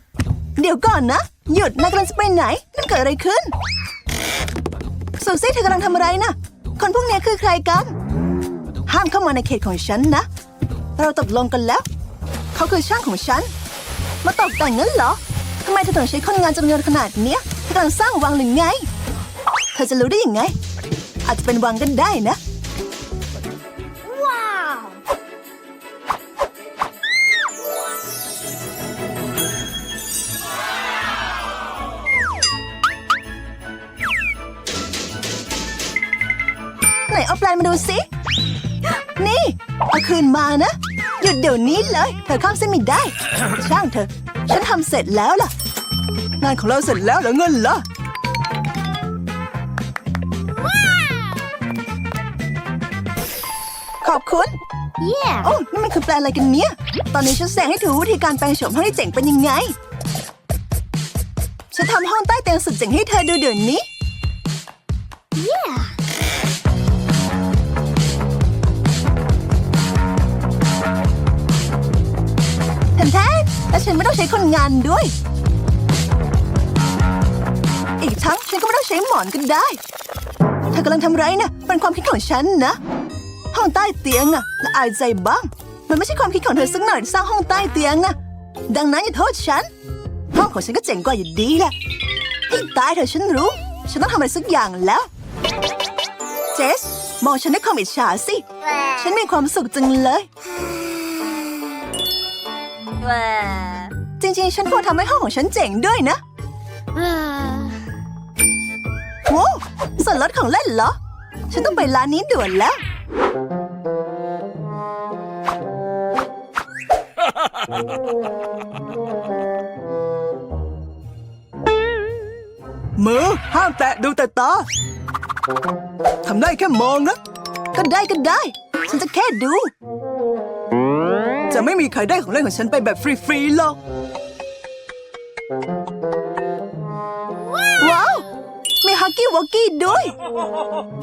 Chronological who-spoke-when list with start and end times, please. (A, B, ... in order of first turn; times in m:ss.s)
0:00.6-0:03.5 A
0:05.2-0:08.0 A
0:08.9-0:10.2 A
0:11.0-0:11.8 A
0:12.6-0:13.5 A
0:14.2-0:18.9 A
0:19.8-0:20.6 A
0:21.3-0:22.4 A
0:24.0-0:25.0 B
0:37.1-0:38.0 A
0:39.2-0:45.5 A
0:46.4-0:47.8 A
0:50.8-0:51.2 B
0:54.0-0:54.5 A
0:55.0-0:55.5 B
0:55.4-0:59.8 A
1:01.7-1:03.8 A
1:05.4-1:06.0 B
1:13.0-1:15.1 A
1:18.0-1:19.8 A
1:20.7-1:22.8 A
1:23.5-1:28.2 A
1:28.7-1:29.7 A
1:30.3-1:31.8 A
1:32.5-1:35.1 A
1:36.5-1:40.3 A
1:41.0-1:41.6 B
1:43.0-1:43.9 B
1:44.2-1:46.2 A
1:46.9-1:48.0 B
1:49.3-1:51.0 A
1:51.5-1:52.8 A
2:03.0-2:04.7 A
2:06.2-2:07.2 A
2:07.7-2:09.7 A
2:11.5-2:13.8 A
2:17.8-2:18.3 A
2:18.8-2:20.2 A